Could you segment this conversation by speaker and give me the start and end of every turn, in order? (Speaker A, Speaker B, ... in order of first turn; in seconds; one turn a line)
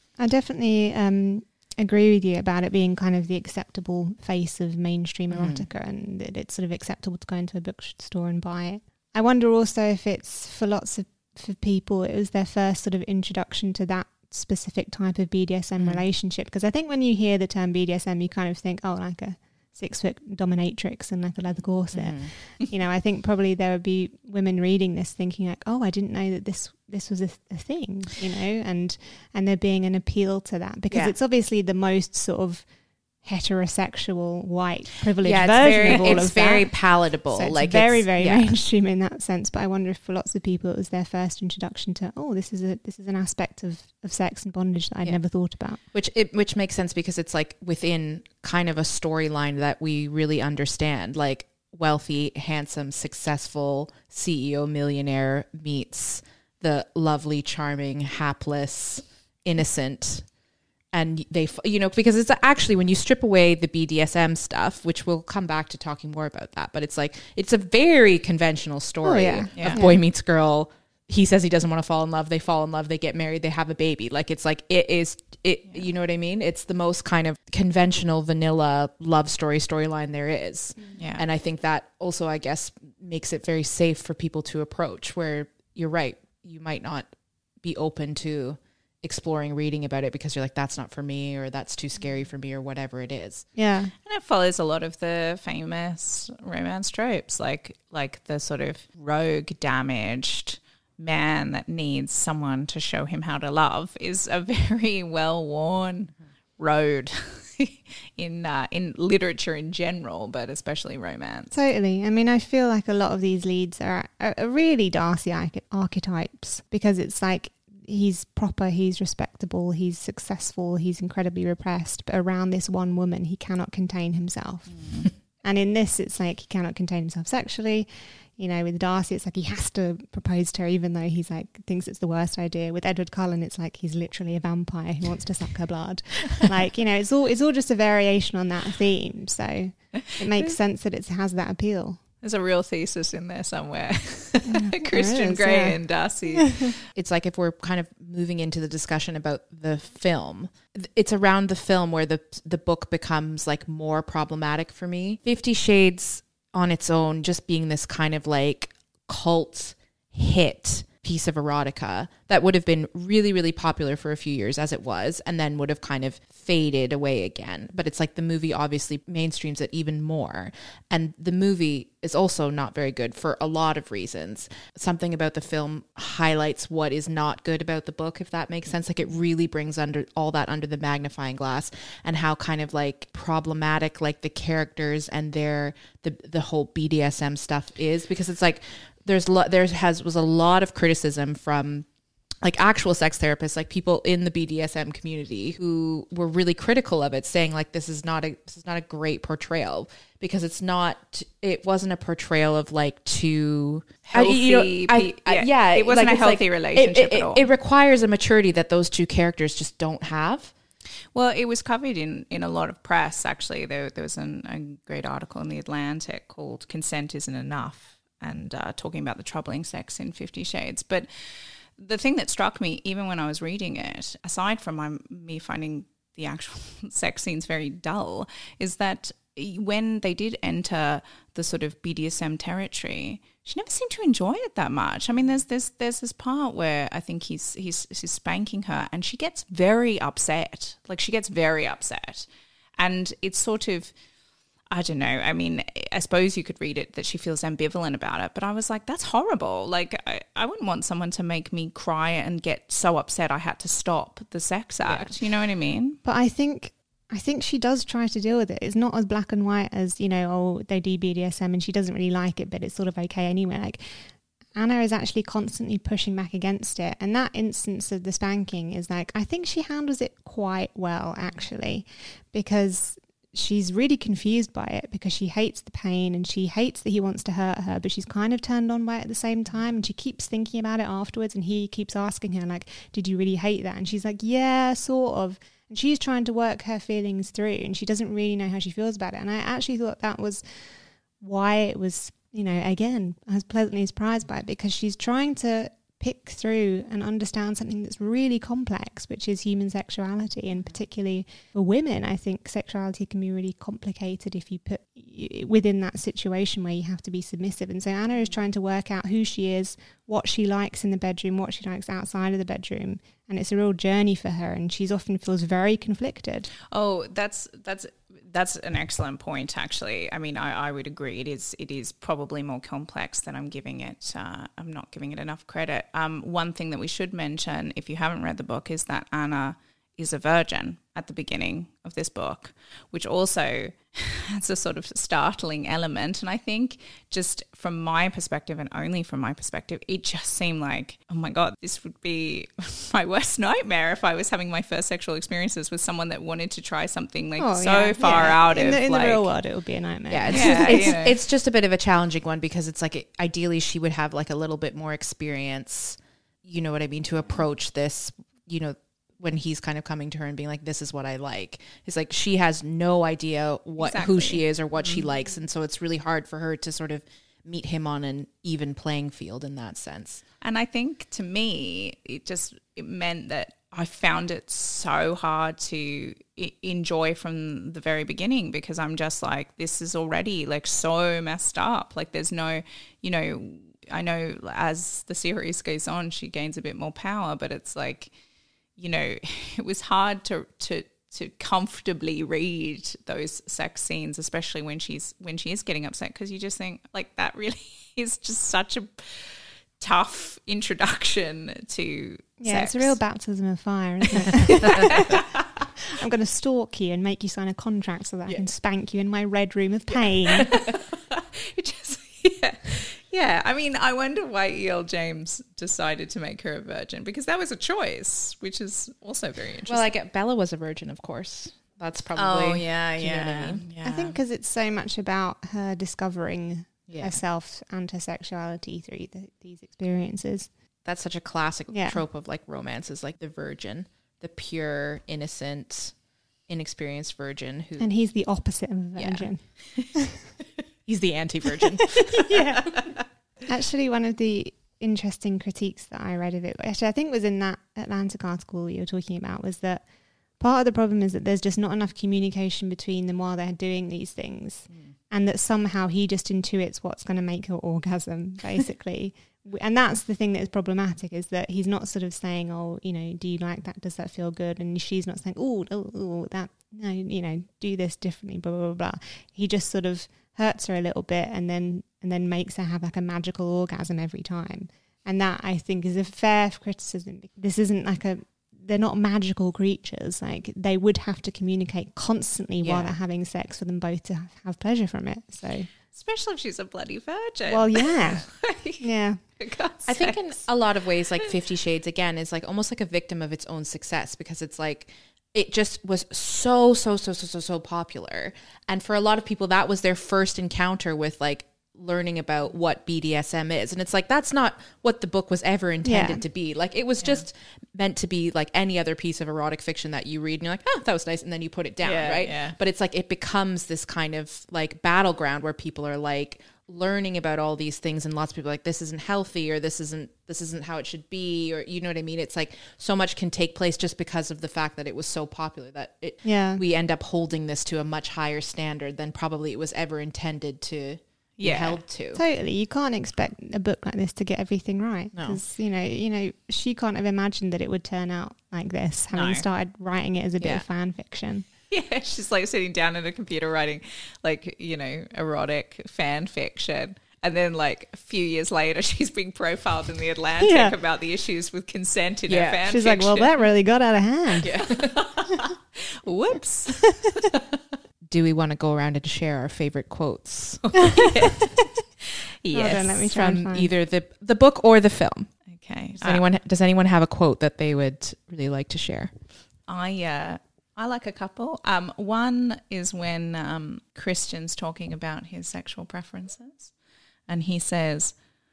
Speaker A: 0.2-45.8
Speaker B: 5.3-5.7
Speaker B: 15.8-16.1
Speaker B: 21.9-22.3
Speaker B: 30.9-31.2
Speaker B: 35.2-38.6
Speaker B: 45.0-60.3
Speaker B: 60.9-93.5
Speaker A: 69.0-70.0
Speaker C: 69.6-69.8
Speaker C: 81.0-81.2
Speaker A: 93.5-93.9
Speaker C: 94.0-111.5
Speaker A: 111.5-142.0
Speaker C: 124.7-125.1
Speaker C: 142.2-146.8
Speaker A: 144.5-145.8
Speaker B: 146.9-191.9
Speaker B: 192.4-210.5
Speaker C: 204.1-207.4
Speaker C: 211.1-244.0
Speaker C: 244.7-256.0
Speaker B: 254.8-255.1
Speaker A: 256.0-316.5
Speaker C: 316.7-349.3
Speaker A: 347.4-351.0
Speaker B: 350.1-370.2
Speaker C: 350.3-351.1
Speaker C: 363.8-365.1
Speaker C: 370.4-388.1
Speaker C: 388.8-403.0
Speaker A: 402.4-405.2
Speaker C: 404.4-405.2
Speaker A: 405.9-410.5
Speaker C: 410.4-419.9
Speaker B: 419.7-423.7
Speaker C: 422.2-424.2
Speaker A: 423.8-430.5
Speaker B: 426.9-427.2
Speaker B: 430.8-437.9
Speaker A: 431.7-432.0
Speaker A: 437.8-440.1
Speaker B: 438.9-439.9
Speaker B: 440.9-442.2
Speaker A: 442.2-485.7
Speaker B: 482.6-483.0
Speaker C: 485.9-490.6
Speaker A: 487.5-489.2
Speaker B: 489.9-532.2
Speaker A: 505.8-506.2
Speaker C: 511.8-512.6
Speaker A: 526.2-526.6
Speaker C: 531.4-531.8
Speaker A: 532.1-541.5
Speaker B: 535.1-535.4
Speaker C: 539.1-539.5
Speaker B: 540.4-540.7
Speaker C: 541.7-553.4
Speaker A: 550.4-550.8
Speaker B: 552.3-552.6
Speaker A: 552.7-554.6
Speaker B: 554.4-555.1
Speaker C: 554.7-557.1
Speaker A: 556.8-557.1
Speaker B: 558.1-561.2
Speaker C: 560.7-561.7
Speaker C: 562.4-563.1
Speaker A: 562.5-563.7
Speaker B: 563.0-565.4
Speaker C: 565.5-566.2
Speaker B: 566.0-569.1
Speaker C: 569.7-576.8
Speaker C: 577.3-578.2